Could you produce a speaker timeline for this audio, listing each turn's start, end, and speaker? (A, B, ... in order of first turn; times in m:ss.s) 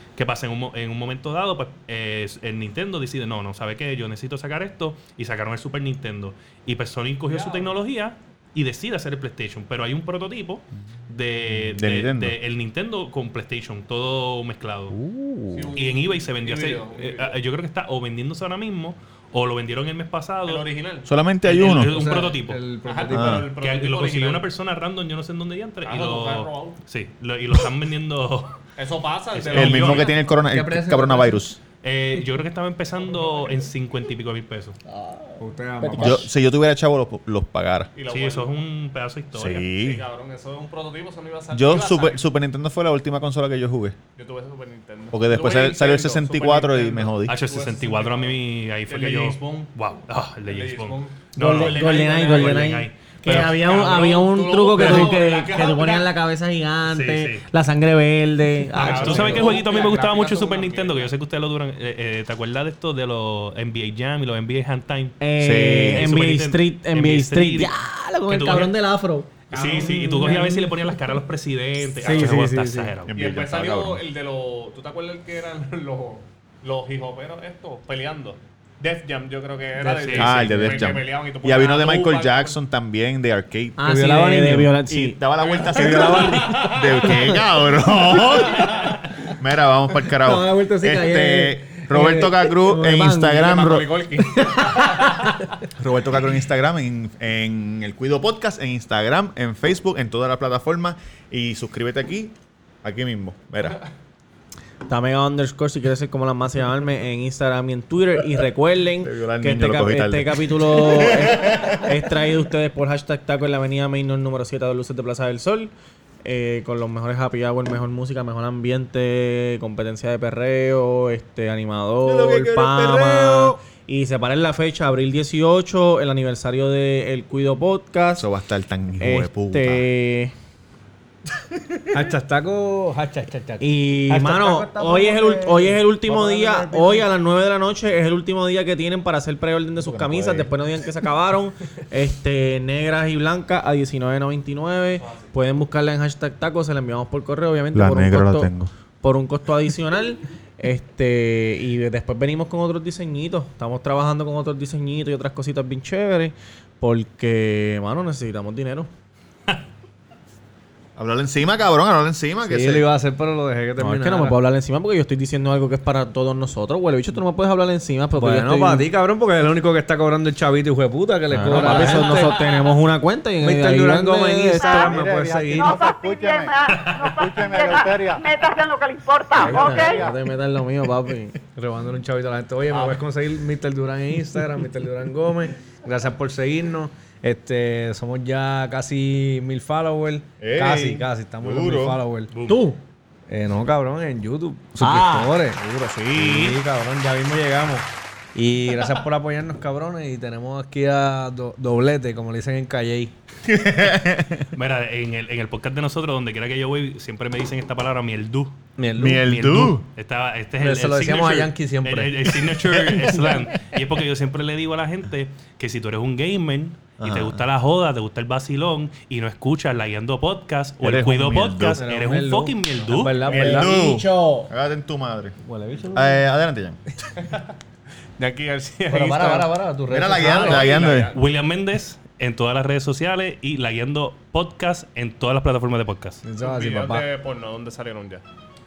0:00.2-0:15.0 A
0:07.2-0:07.8 B
0:11.5-0:12.4 C
0:14.9-0:15.7 C
0:15.5-0:17.4 B
0:15.8-0:20.7 A
0:20.4-0:21.1 B
0:21.1-0:22.0 C
0:21.4-0:22.7 A
0:21.8-0:23.5 D
0:22.8-0:24.5 B
0:23.1-0:23.5 C
0:23.6-0:28.6 A
0:25.8-0:26.8 B
0:28.8-0:30.2 B
0:29.3-0:30.1 A
0:29.5-0:31.6 C
0:30.3-0:31.4 D
0:31.8-0:34.8 A
0:32.9-0:33.7 B
0:34.9-0:36.2 E
0:35.4-0:36.3 D
0:36.0-0:37.9 C
0:38.0-0:38.5 B
0:38.1-0:39.7 A
0:39.4-0:40.0 C
0:39.7-0:42.2 B
0:41.5-0:44.0 C
0:44.2-0:49.7 B
0:45.1-0:47.3 C
0:47.3-0:53.6 A
0:50.4-0:56.1 B
0:51.4-0:59.6 E
0:54.8-0:55.2 A
0:56.9-0:57.5 A
0:58.7-1:01.1 B
0:58.8-1:05.2 A
1:05.2-1:09.5 E
1:05.4-1:06.1 C
1:05.9-1:07.7 A
1:08.3-1:08.7 A
1:09.5-1:10.7 D
1:09.5-1:13.1 A
1:09.5-1:10.3 B
1:12.0-1:12.9 D
1:12.0-1:12.3 B
1:13.1-1:14.0 C
1:13.1-1:22.6 B
1:19.8-1:21.0 D
1:19.9-1:20.4 A
1:20.2-1:23.8 C
1:23.8-1:25.2 E
1:23.8-1:24.8 D
1:24.9-1:34.1 C
1:25.4-1:27.3 B
1:25.7-1:26.8 D
1:25.8-1:26.7 E
1:30.2-1:33.6 E
1:33.3-1:35.2 B
1:34.3-1:35.4 E
1:35.8-1:43.8 C
1:44.9-1:55.7 E
1:49.0-1:51.9 C
1:56.2-2:08.3 E
2:02.0-2:03.6 C
2:08.2-2:09.9 C
2:09.0-2:10.3 E
2:11.5-2:11.8 C
2:11.9-2:15.0 D
2:13.6-2:38.9 E
2:14.5-2:15.9 C
2:16.0-2:17.1 D
2:19.8-2:20.5 C
2:27.7-2:28.7 C
2:41.0-2:42.9 C
2:42.4-2:44.4 D
2:43.8-2:48.9 E
2:48.2-2:52.5 D
2:51.3-2:55.1 E
2:51.5-2:51.9 C
2:52.1-2:52.6 B
2:53.4-2:55.9 D
2:54.6-3:00.0 F
2:55.8-2:56.4 C
2:56.7-2:57.2 A
2:57.2-2:58.2 C
2:59.3-3:01.4 E
2:59.4-2:59.7 D
2:59.8-3:00.2 C
3:01.6-3:12.6 D
3:02.7-3:03.0 B
3:10.4-3:12.0 C
3:12.3-3:12.6 A
3:12.5-3:12.8 E
3:13.3-3:15.6 D
3:14.8-3:16.6 E
3:16.2-3:23.1 D
3:23.4-3:24.5 C
3:24.5-3:28.6 A
3:28.8-3:29.2 D
3:29.0-3:29.8 C
3:29.2-3:43.2 A
3:30.6-3:32.3 D
3:32.6-3:33.4 C
3:37.0-3:37.4 C
3:40.8-3:41.8 C
3:41.8-3:43.7 D
3:43.2-3:45.4 C
3:43.3-3:44.5 E
3:45.5-3:46.2 D
3:45.9-3:46.8 C
3:47.2-3:47.5 B
3:48.2-3:49.5 B
3:48.9-3:50.9 D
3:49.9-3:51.1 C
3:50.2-3:51.2 B
3:51.1-3:56.2 A
3:56.2-3:57.1 D
3:56.4-3:58.2 B